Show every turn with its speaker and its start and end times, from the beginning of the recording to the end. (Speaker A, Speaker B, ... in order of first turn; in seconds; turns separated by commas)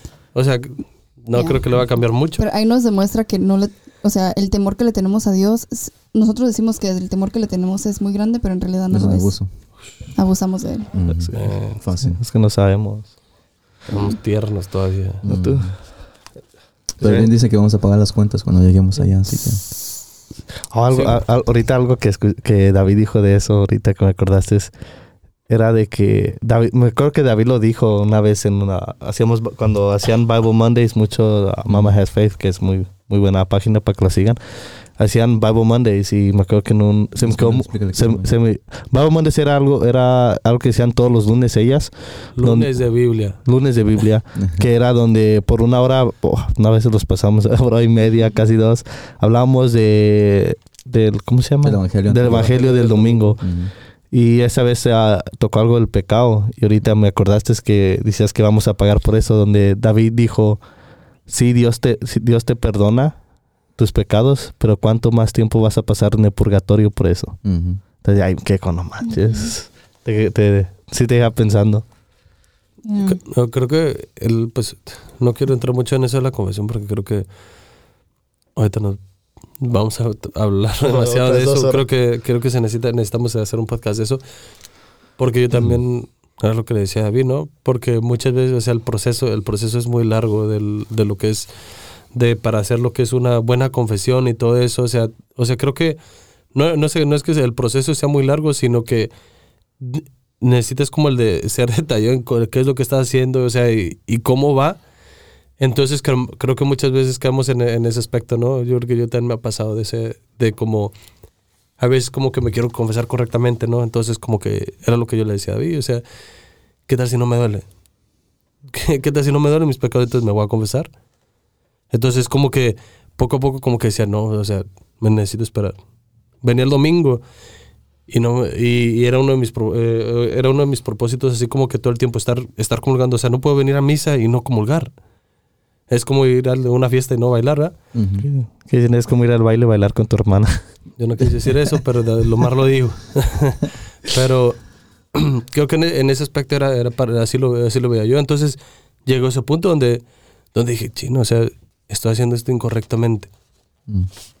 Speaker A: 0.3-2.4, Speaker B: 1.3-1.6, Speaker B: 2.4-9.3, Speaker C: 8.9-9.5, Speaker B: 10.2-11.1, Speaker C: 10.9-12.2, Speaker A: 11.3-11.8, Speaker D: 12.0-13.1, Speaker A: 13.9-15.2, Speaker C: 15.2-15.8, Speaker D: 15.2-15.8, Speaker C: 17.0-19.6, Speaker D: 17.0-17.3, Speaker D: 20.7-24.7, Speaker A: 20.9-21.2, Speaker D: 25.5-42.7, Speaker C: 31.6-31.9, Speaker C: 37.2-38.3, Speaker A: 42.4-43.4, Speaker D: 43.4-53.4, Speaker C: 44.4-44.7, Speaker C: 51.6-52.5, Speaker A: 52.2-53.4, Speaker C: 53.4-53.7, Speaker D: 54.1-60.6, Speaker D: 61.3-63.1, Speaker D: 63.8-67.4, Speaker C: 67.4-67.8, Speaker D: 68.0-71.8, Speaker B: 69.0-69.5, Speaker B: 72.8-73.2, Speaker A: 73.0-77.3, Speaker A: 78.5-79.0, Speaker A: 79.6-84.2, Speaker D: 80.8-81.8, Speaker A: 85.2-91.5, Speaker A: 92.1-96.0, Speaker A: 96.5-99.1, Speaker A: 99.8-104.8, Speaker A: 105.6-110.9, Speaker A: 111.8-116.0, Speaker A: 116.8-117.7, Speaker A: 118.7-120.9, Speaker A: 121.9-125.8, Speaker A: 126.4-127.2, Speaker A: 128.1-134.9, Speaker A: 135.9-137.7, Speaker C: 137.9-138.3, Speaker D: 138.2-140.6, Speaker A: 141.0-144.6, Speaker A: 145.1-153.3